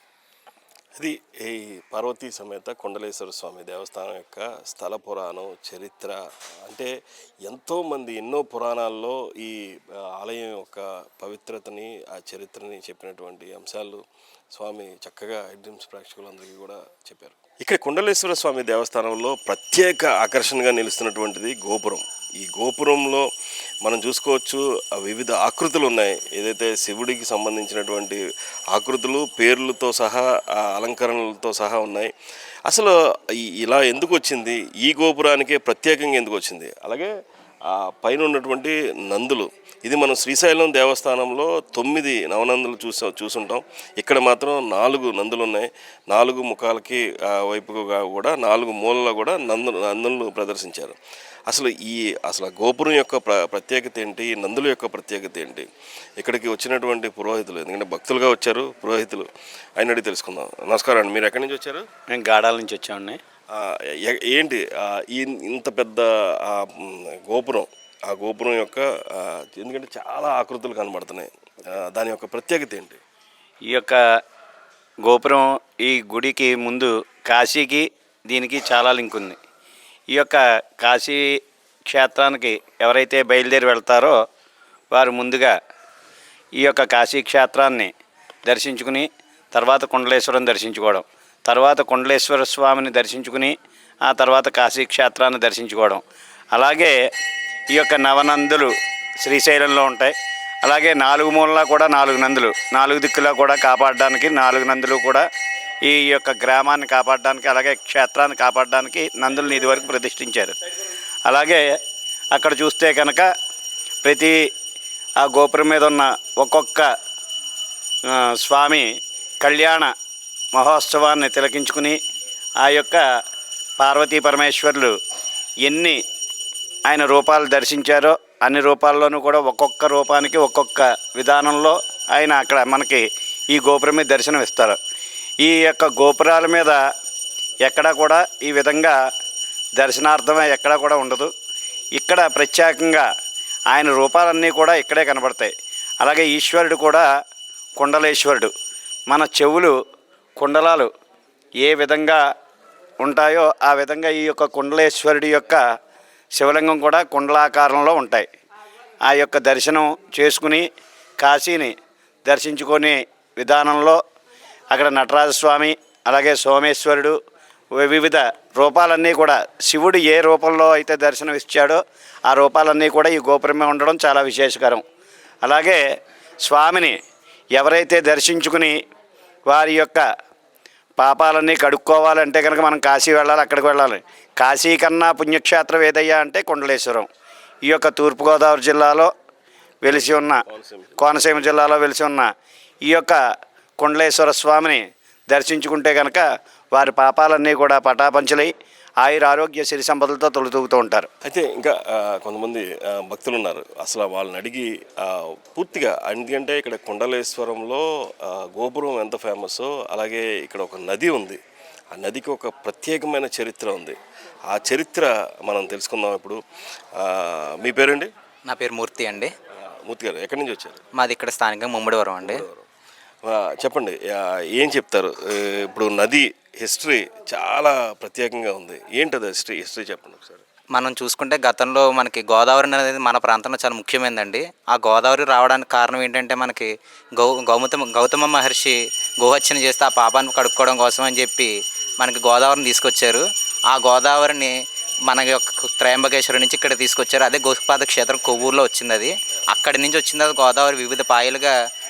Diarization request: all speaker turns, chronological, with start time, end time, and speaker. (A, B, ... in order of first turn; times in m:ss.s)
0:01.0-0:06.9 A
0:07.4-0:23.3 A
0:23.8-0:28.2 A
0:28.7-0:32.1 A
0:32.7-0:33.0 A
0:33.6-0:37.1 A
0:37.7-0:51.0 A
0:51.5-0:55.7 A
0:56.2-1:01.9 A
1:02.1-1:03.2 B
1:03.5-1:13.0 A
1:13.7-1:14.0 B
1:15.0-1:19.4 B
1:20.1-1:21.2 B
1:21.9-1:24.2 B
1:24.9-1:25.6 B
1:26.6-1:27.9 B
1:28.4-1:36.0 B
1:36.5-1:37.0 B
1:37.7-1:45.2 B
1:45.8-1:50.6 B
1:51.3-1:51.7 B
1:52.3-1:53.3 B
1:54.0-1:54.4 B
1:55.2-1:56.9 B
1:58.1-1:58.9 B
1:59.4-1:59.9 B
2:00.5-2:02.0 B
2:02.6-2:03.0 B
2:03.8-2:05.0 B
2:05.6-2:06.0 B
2:06.9-2:14.8 B
2:15.4-2:16.8 B
2:17.6-2:19.0 B
2:19.8-2:21.3 B
2:22.0-2:23.1 B
2:23.7-2:27.1 B
2:27.8-2:28.5 B
2:29.1-2:29.8 B
2:30.4-2:30.9 B
2:31.6-2:32.2 B
2:33.0-2:35.6 B
2:36.3-2:38.3 B
2:39.1-2:40.7 B
2:41.2-2:44.0 B
2:44.7-2:47.2 B
2:47.8-2:54.8 B
2:55.4-2:55.8 B
2:56.4-2:57.0 B
2:57.5-2:58.8 B
2:59.5-3:00.1 B
3:01.0-3:07.1 B
3:07.6-3:09.1 B
3:09.8-3:10.4 B
3:10.0-3:11.0 A
3:11.0-3:12.3 B
3:12.8-3:13.2 B
3:13.8-3:21.1 B
3:21.2-3:31.4 A
3:31.9-3:34.0 A
3:34.5-3:36.4 A
3:37.0-3:38.1 A
3:38.5-3:39.3 C
3:39.6-3:40.8 A
3:41.0-3:42.5 C
3:42.2-3:42.6 A
3:43.2-3:50.4 A
3:50.8-4:04.6 C
4:05.1-4:11.5 C